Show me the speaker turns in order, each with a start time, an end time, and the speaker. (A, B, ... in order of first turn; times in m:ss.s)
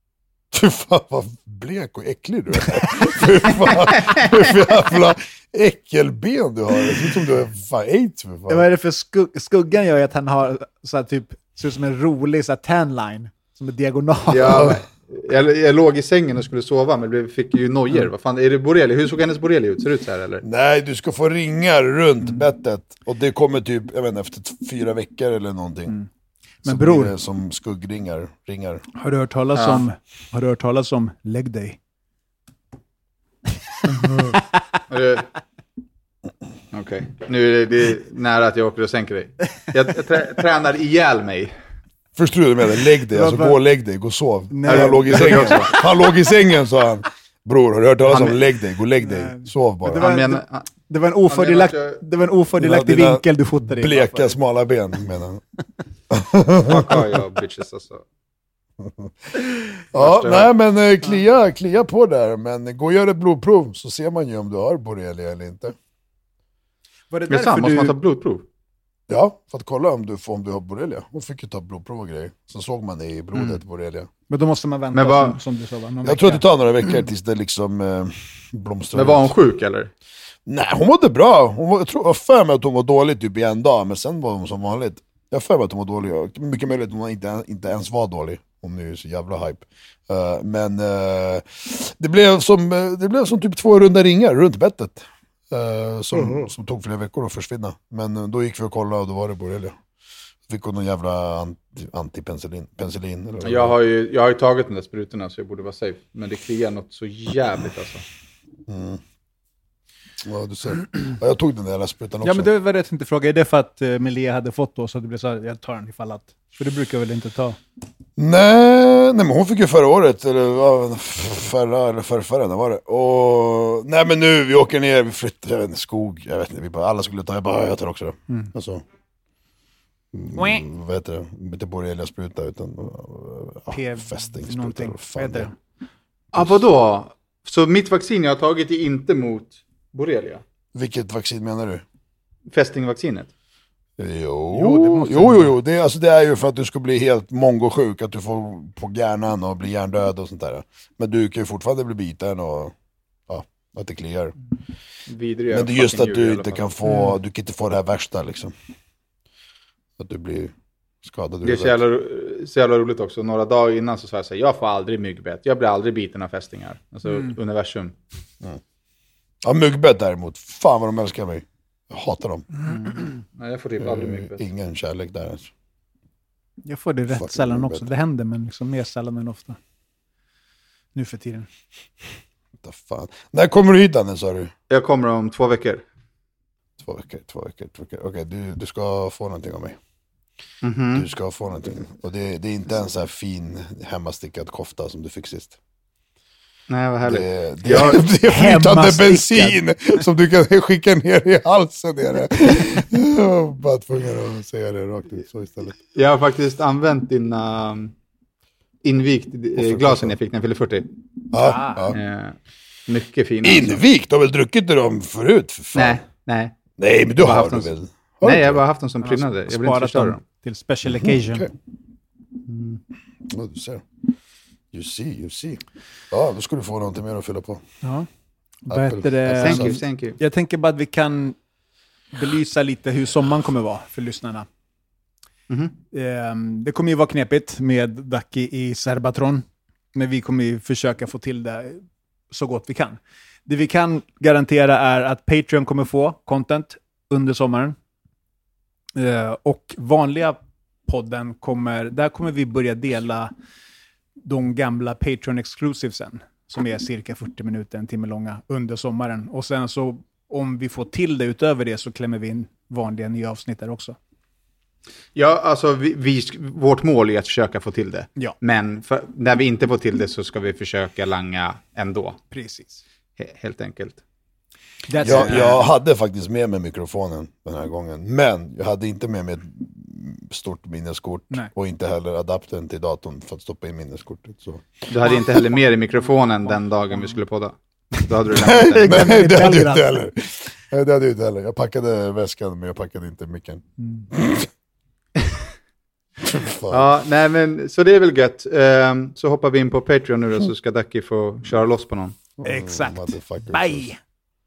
0:00.5-0:08.7 A
0:08.5-0:14.8 B
0:14.3-0:20.4 C
0:14.4-0:14.7 A
0:20.4-0:26.0 A
0:26.6-0:27.1 B
0:26.6-0:28.8 A
0:29.0-0:31.8 B
0:29.6-0:29.9 C
0:34.0-0:34.4 B
0:34.9-0:35.3 C
0:36.7-0:41.6 C
0:42.2-0:50.1 A
0:43.1-0:43.6 B
0:44.5-0:46.2 B
0:44.7-0:45.8 C
0:48.1-0:48.4 C
0:49.0-0:54.3 B
0:50.0-0:50.7 C
0:51.3-0:52.0 C
0:52.6-0:55.4 A
0:56.1-0:57.0 A
0:56.6-0:58.0 C
0:58.8-1:05.8 A
0:59.9-1:00.5 C
1:07.1-1:08.0 B
1:07.3-1:08.5 C
1:09.1-1:14.1 A
1:14.3-1:16.4 B
1:14.9-1:15.4 C
1:16.0-1:19.3 A
1:18.9-1:19.9 C
1:20.5-1:39.8 A
1:40.5-1:43.8 A
1:43.4-1:48.0 C
1:48.7-1:49.0 A
1:50.2-1:52.5 A
1:52.2-1:57.6 B
1:58.2-2:08.8 A
2:10.1-2:15.5 A
2:10.4-2:10.6 B
2:13.7-2:15.6 B
2:16.3-2:20.4 C
2:20.7-2:21.8 A
2:22.5-2:23.3 C
2:24.0-2:32.7 A
2:24.5-2:25.5 B
2:33.3-2:34.3 A
2:35.1-2:36.8 C
2:35.5-2:38.5 A
2:36.9-2:37.1 B
2:40.0-2:41.8 A
2:41.4-2:48.0 C
2:49.4-2:52.5 A
2:52.6-2:54.4 C
2:53.8-2:55.5 A
2:56.6-2:59.6 B
2:57.1-2:57.9 A
3:01.0-3:01.5 B
3:02.6-3:04.5 A
3:04.7-3:05.8 C
3:06.8-3:09.8 A
3:10.6-3:11.1 C
3:11.0-3:15.6 A
3:16.7-3:18.0 C
3:17.1-3:25.8 A
3:18.3-3:19.6 B
3:25.9-3:27.9 C
3:28.8-3:30.9 C
3:29.6-3:30.2 A
3:31.3-3:32.0 A
3:31.4-3:31.9 B
3:31.9-3:32.4 C
3:32.9-3:33.8 C
3:33.4-3:36.0 A
3:35.7-3:36.6 C
3:36.8-3:38.6 A
3:37.2-3:37.7 C
3:38.2-3:40.2 C
3:39.0-3:41.5 B
3:40.8-3:41.5 A
3:42.5-3:42.8 C
3:43.3-3:43.9 A
3:44.7-3:47.6 A
3:47.8-3:48.1 B
3:48.7-3:51.4 B
3:48.7-3:49.8 A
3:49.4-3:50.2 C
3:52.1-3:54.5 B
3:55.9-4:07.8 B
4:09.0-4:13.3 B
4:14.2-4:24.0 B
4:25.2-4:32.2 C
4:32.3-4:32.8 B
4:33.2-4:34.0 C
4:34.9-4:35.6 B
4:35.0-4:45.3 A
4:35.1-4:35.6 C
4:44.9-4:49.1 C
4:46.9-4:47.2 B
4:48.4-4:54.5 A
4:48.4-4:50.0 B
4:53.8-4:54.1 B
4:56.2-4:56.9 A
4:56.7-5:02.2 C
5:02.4-5:03.9 A
5:02.4-5:04.0 B